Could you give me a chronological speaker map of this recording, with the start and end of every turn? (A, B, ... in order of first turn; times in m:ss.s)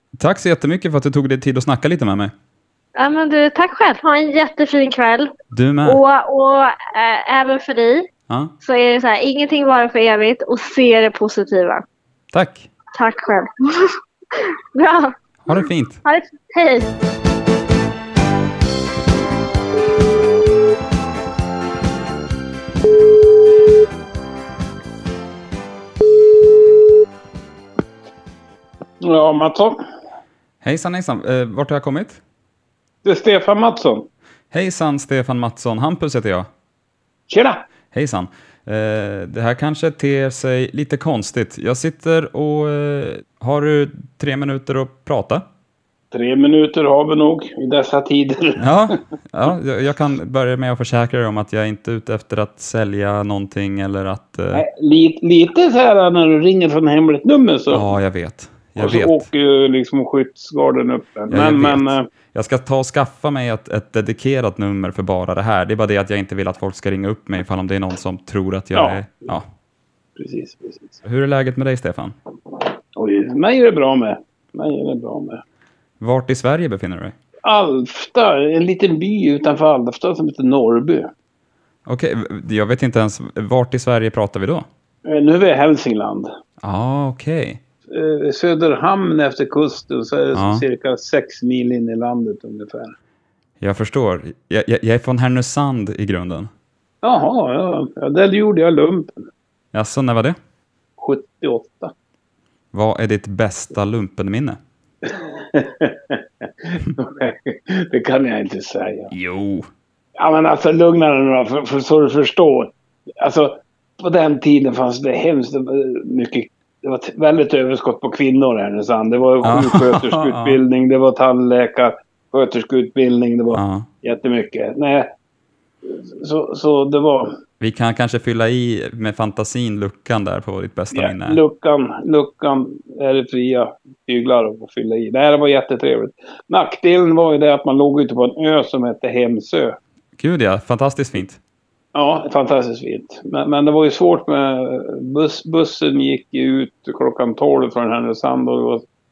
0:00.2-0:02.3 A
0:03.0-0:05.3 B
0:05.5-0:06.0 A
0:05.8-0:08.1 B
0:08.6-0:11.8 B
0:12.3-0:12.7 A
0:13.0-0:15.1 B
0:15.4-0:16.0 A
0:16.0-0:16.9 B
0:29.0-0:29.8 C
0:30.6-0:32.2 A
0:33.0-0:34.1 C
0:34.5-0:36.5 A
0:37.3-0:37.6 C
0:37.9-0:45.4 A
0:46.1-0:48.6 C
0:48.6-0:54.6 A
0:54.5-0:57.9 C
0:57.7-0:59.3 A
0:58.8-1:02.1 C
1:01.3-1:09.4 A
1:08.8-1:09.0 C
1:10.2-1:11.0 C
1:11.0-1:12.2 A
1:13.0-1:15.4 C
1:16.0-1:17.1 A
1:17.4-1:21.1 C
1:21.9-1:24.7 A
1:25.0-1:26.3 C
1:26.6-1:27.6 A
1:27.9-1:32.9 C
1:30.3-1:30.6 A
1:33.6-1:36.5 A
1:37.0-1:39.3 C
1:39.7-1:40.4 A
1:41.0-1:41.9 C
1:42.7-1:44.6 A
1:45.0-1:49.1 C
1:49.1-1:49.7 A
1:50.2-2:05.1 C
1:59.4-2:00.6 A
2:03.5-2:03.9 A
2:05.8-2:07.3 C
2:07.6-2:11.4 A
2:10.9-2:19.8 C
2:20.2-2:21.4 A
2:21.9-2:28.8 C